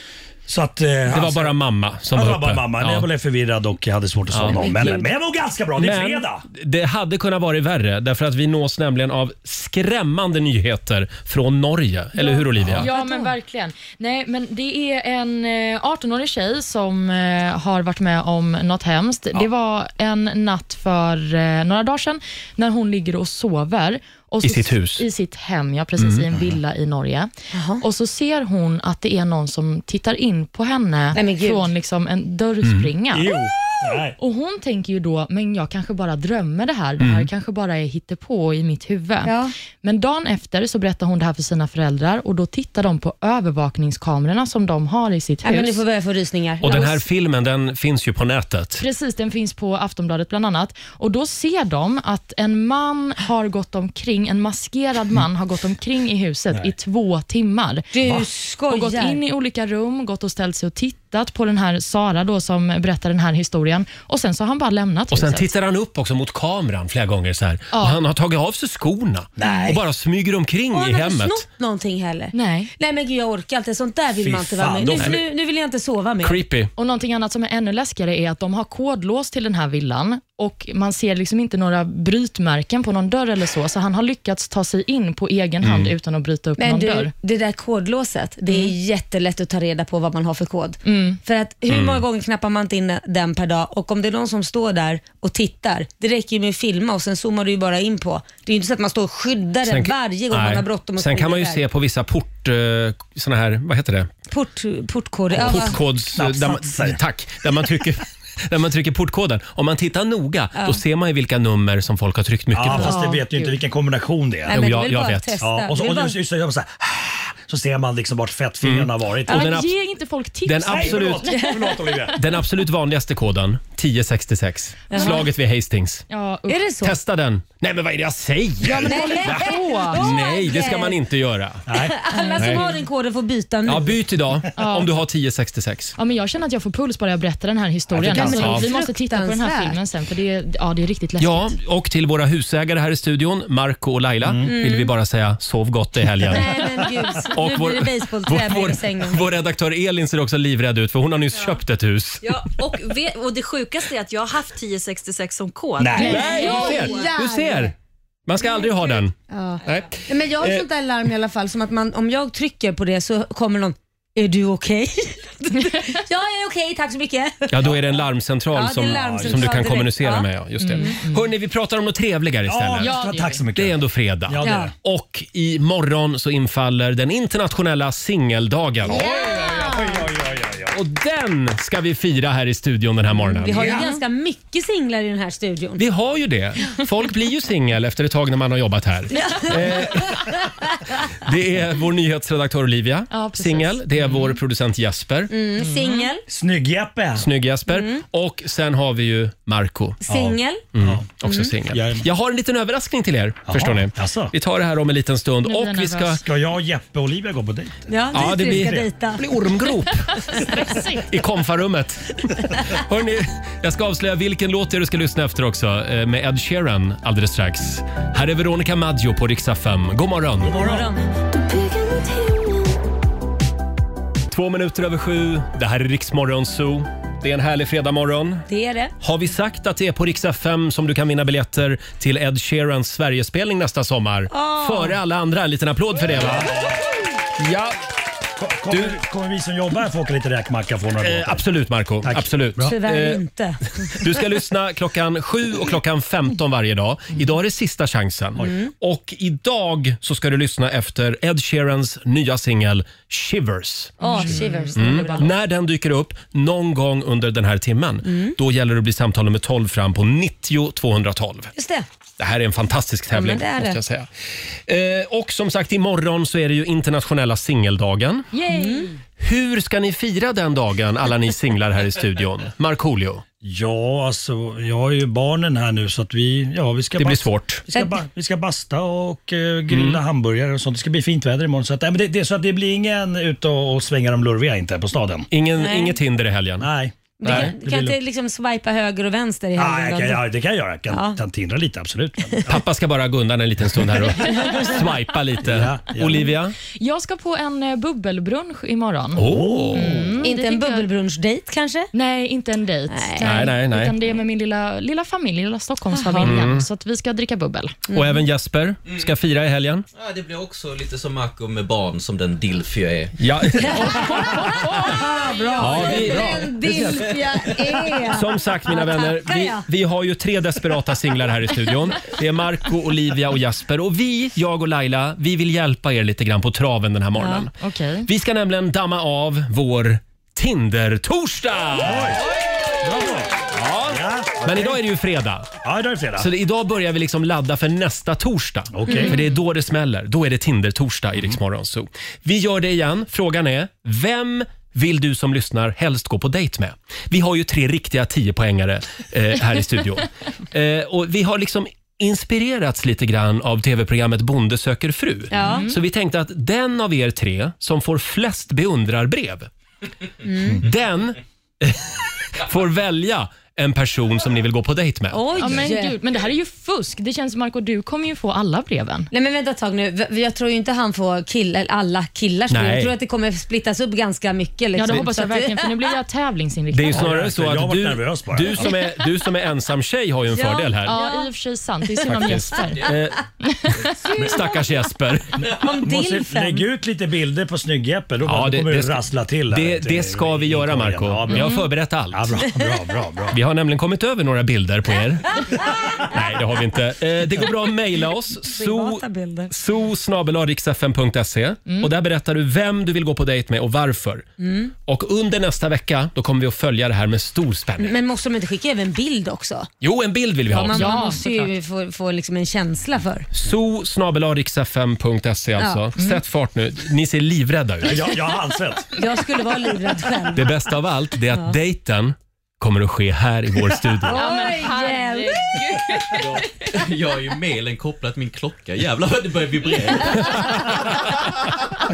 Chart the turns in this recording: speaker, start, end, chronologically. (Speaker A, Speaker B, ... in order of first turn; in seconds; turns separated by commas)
Speaker A: 0.5-1.5, Speaker B: 1.1-3.1, Speaker A: 2.1-6.4, Speaker B: 4.3-4.9, Speaker C: 4.5-5.1, Speaker B: 5.8-12.9, Speaker D: 12.2-33.3, Speaker C: 12.8-13.3, Speaker B: 24.4-25.0, Speaker B: 26.0-26.2, Speaker C: 27.5-27.8, Speaker C: 31.1-31.7, Speaker B: 32.6-32.9, Speaker A: 33.1-34.1, Speaker D: 34.2-45.8, Speaker B: 37.0-37.3, Speaker C: 39.2-39.5, Speaker C: 45.4-47.0, Speaker B: 46.6-48.8, Speaker D: 48.8-57.9, Speaker C: 57.9-59.2, Speaker D: 58.7-65.5, Speaker B: 65.1-71.4, Speaker D: 67.7-68.0, Speaker A: 69.4-69.8, Speaker C: 70.7-76.4, Speaker D: 72.3-72.7, Speaker A: 74.2-75.2, Speaker B: 74.9-75.2, Speaker B: 76.2-76.7, Speaker D: 76.8-87.1, Speaker B: 85.6-85.9, Speaker C: 86.6-101.6, Speaker D: 90.8-91.2, Speaker B: 91.7-92.0, Speaker B: 99.6-104.1, Speaker C: 104.3-105.8, Speaker B: 105.3-113.0, Speaker A: 105.4-107.0, Speaker A: 112.5-114.5, Speaker C: 112.7-113.2, Speaker D: 112.9-113.5, Speaker C: 114.5-116.2, Speaker B: 114.5-115.4, Speaker A: 115.4-119.5, Speaker B: 118.6-119.7, Speaker D: 119.3-121.3, Speaker B: 120.4-121.3, Speaker A: 120.7-122.2, Speaker C: 121.3-121.9, Speaker B: 122.1-126.0, Speaker C: 124.9-125.2, Speaker D: 124.9-125.2, Speaker D: 126.1-126.6, Speaker C: 126.5-127.0, Speaker B: 126.8-129.3, Speaker A: 128.6-129.6, Speaker C: 128.8-131.0, Speaker D: 129.3-130.0, Speaker B: 129.9-131.7, Speaker A: 131.7-132.5, Speaker C: 131.7-134.0, Speaker B: 132.4-132.7, Speaker B: 133.6-135.9, Speaker D: 134.5-134.9, Speaker D: 136.0-141.5, Speaker A: 137.9-138.3, Speaker C: 138.1-139.8, Speaker B: 138.1-138.7, Speaker B: 141.2-146.7, Speaker C: 144.4-144.9, Speaker C: 146.3-149.2, Speaker B: 147.3-152.4, Speaker E: 152.2-157.1, Speaker A: 155.8-156.3, Speaker C: 156.0-157.7, Speaker D: 156.0-156.7, Speaker B: 156.0-157.7, Speaker B: 158.3-159.1, Speaker C: 159.3-167.6, Speaker B: 159.7-160.7, Speaker B: 167.5-172.9, Speaker C: 168.5-171.0, Speaker A: 168.8-169.7, Speaker D: 170.6-171.3, Speaker A: 172.5-174.7, Speaker D: 172.8-173.4, Speaker B: 173.5-179.0, Speaker C: 174.4-174.7, Speaker A: 178.8-180.8, Speaker C: 178.9-180.0, Speaker B: 180.7-183.8, Speaker C: 183.2-185.8, Speaker A: 183.5-184.0, Speaker B: 185.8-190.4, Speaker C: 189.1-190.8, Speaker B: 191.2-195.3, Speaker D: 193.1-193.8, Speaker C: 195.3-196.2, Speaker D: 195.6-196.1, Speaker A: 196.3-197.3, Speaker B: 197.1-200.0, Speaker C: 197.7-198.0, Speaker C: 200.0-200.6, Speaker A: 200.1-201.1, Speaker B: 200.7-206.2, Speaker C: 201.2-201.5, Speaker A: 201.7-202.0, Speaker A: 203.5-204.3, Speaker D: 205.4-206.2, Speaker A: 206.2-208.8, Speaker C: 207.9-209.2, Speaker B: 208.1-220.6, Speaker D: 210.1-211.0, Speaker A: 220.4-220.8, Speaker C: 220.6-222.7, Speaker B: 224.3-228.4, Speaker C: 228.5-228.9, Speaker B: 229.0-236.6, Speaker C: 234.3-235.0, Speaker A: 236.1-236.8, Speaker B: 237.3-237.8, Speaker A: 238.4-241.4, Speaker B: 238.7-239.0, Speaker B: 241.0-243.2, Speaker A: 242.0-242.7, Speaker C: 242.6-243.9, Speaker B: 243.9-261.5, Speaker C: 248.4-248.7, Speaker C: 254.0-255.3, Speaker D: 254.0-255.2, Speaker C: 258.1-258.4, Speaker C: 261.6-261.9, Speaker B: 262.2-264.1, Speaker C: 263.1-263.8, Speaker B: 264.7-268.3, Speaker D: 268.3-268.9, Speaker C: 268.4-268.9, Speaker B: 269.2-273.2, Speaker A: 273.4-285.3, Speaker B: 277.0-277.6, Speaker B: 279.7-280.0, Speaker B: 285.3-286.7, Speaker C: 285.6-286.0, Speaker A: 286.6-288.0, Speaker C: 287.2-290.2, Speaker B: 287.2-287.5, Speaker A: 289.6-292.6, Speaker C: 290.9-291.2, Speaker B: 292.5-296.6, Speaker C: 294.3-294.7, Speaker A: 295.4-296.3, Speaker D: 296.8-300.9, Speaker B: 299.1-300.0, Speaker A: 299.2-300.1, Speaker C: 300.2-301.9, Speaker D: 301.9-307.8, Speaker C: 302.9-303.5, Speaker B: 303.2-303.9, Speaker C: 305.9-306.3, Speaker B: 306.2-306.6, Speaker C: 307.9-308.2, Speaker B: 307.9-309.9, Speaker F: 309.9-313.2, Speaker B: 313.2-314.3, Speaker D: 313.8-315.0, Speaker C: 314.9-319.6, Speaker A: 315.2-317.1, Speaker B: 315.6-316.9, Speaker B: 318.1-327.5, Speaker C: 327.2-327.4, Speaker D: 327.6-328.1, Speaker B: 328.0-332.2, Speaker A: 331.8-332.2, Speaker A: 332.8-334.8, Speaker B: 333.5-335.5, Speaker A: 335.6-336.3, Speaker B: 336.2-359.5, Speaker A: 338.7-339.2, Speaker C: 355.3-355.6, Speaker D: 355.4-355.7, Speaker C: 360.2-360.6, Speaker B: 360.5-365.7, Speaker C: 365.1-366.0, Speaker D: 365.4-369.1, Speaker C: 369.1-375.7, Speaker B: 372.5-372.9, Speaker D: 374.7-377.1, Speaker B: 376.7-381.0, Speaker A: 376.9-378.7, Speaker C: 380.3-381.3, Speaker D: 380.9-382.9, Speaker B: 382.0-383.2, Speaker D: 383.4-383.9, Speaker B: 384.2-385.5, Speaker A: 385.4-393.4, Speaker C: 385.5-386.7, Speaker B: 388.2-392.4, Speaker D: 391.3-391.6, Speaker B: 393.3-395.5, Speaker B: 396.0-404.2, Speaker C: 398.5-399.5, Speaker C: 404.4-404.7, Speaker B: 404.8-408.0, Speaker C: 407.8-409.7, Speaker B: 409.8-411.1, Speaker C: 410.5-413.3, Speaker D: 410.7-411.5, Speaker B: 413.3-418.3, Speaker A: 417.8-418.9, Speaker C: 418.9-420.5, Speaker B: 420.3-424.2, Speaker C: 424.1-425.6, Speaker D: 424.1-426.4, Speaker F: 426.1-430.6, Speaker B: 430.1-431.5